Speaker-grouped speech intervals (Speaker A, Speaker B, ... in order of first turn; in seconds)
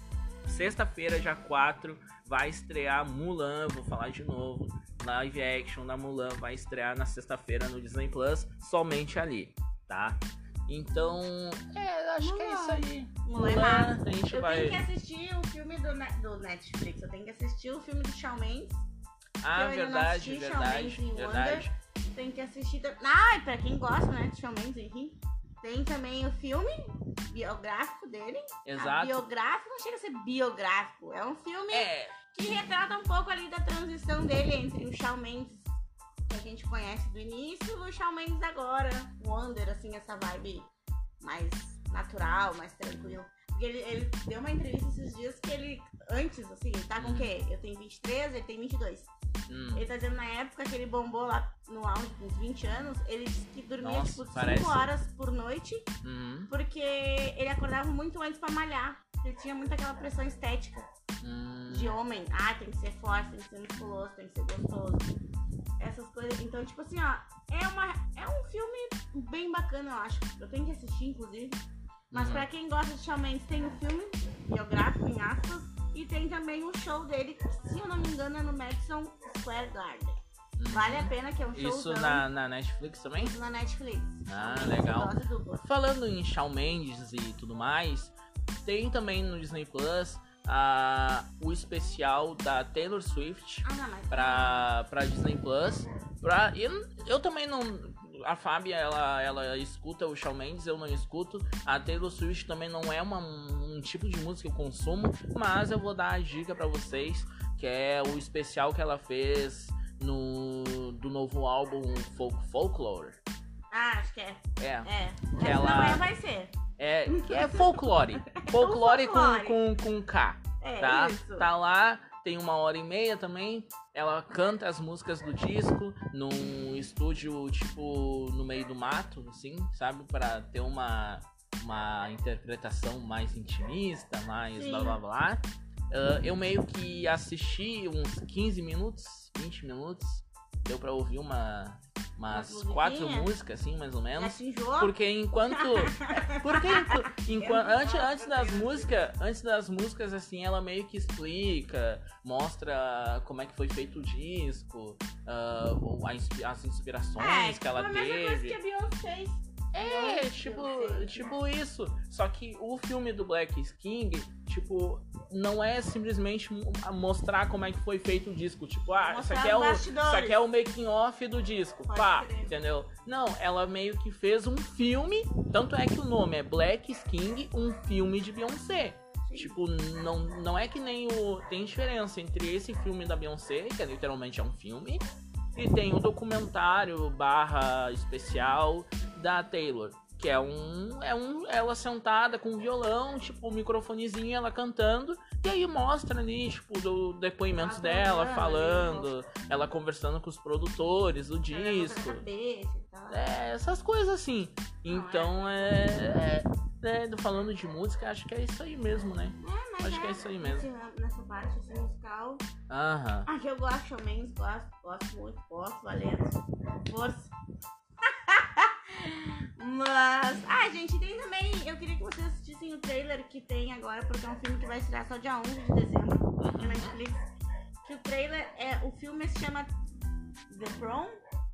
Speaker A: 0.4-14.8, 19.4-21.7, 28.6-29.2, 31.7-32.1, 47.0-47.3, 49.5-49.9, 53.8-54.9, 56.0-56.5, 61.2-62.0, 72.1-72.5, 80.6-83.3, 84.2-113.2, 114.6-116.1, 116.8-158.6, 159.7-185.0, 185.5-202.2, 203.1-210.7, 212.7-213.3, 226.6-226.9
Speaker B: 12.2-18.8, 19.5-35.8, 36.3-40.7, 41.2-49.1, 49.7-55.9, 56.5-60.9, 61.7-65.1, 65.8-80.2, 80.7-82.2, 83.2-85.6, 93.6-94.7, 113.7-116.5, 117.1-119.6, 120.6-121.5, 134.5-135.0, 142.3-143.3, 144.2-149.1, 157.2-161.3, 169.1-170.4, 171.9-172.5, 179.3-179.5, 197.5-199.1, 201.5-203.2, 204.9-206.1, 209.4-212.4, 213.3-217.3, 218.2-227.2, 227.8-229.7, 230.5-231.2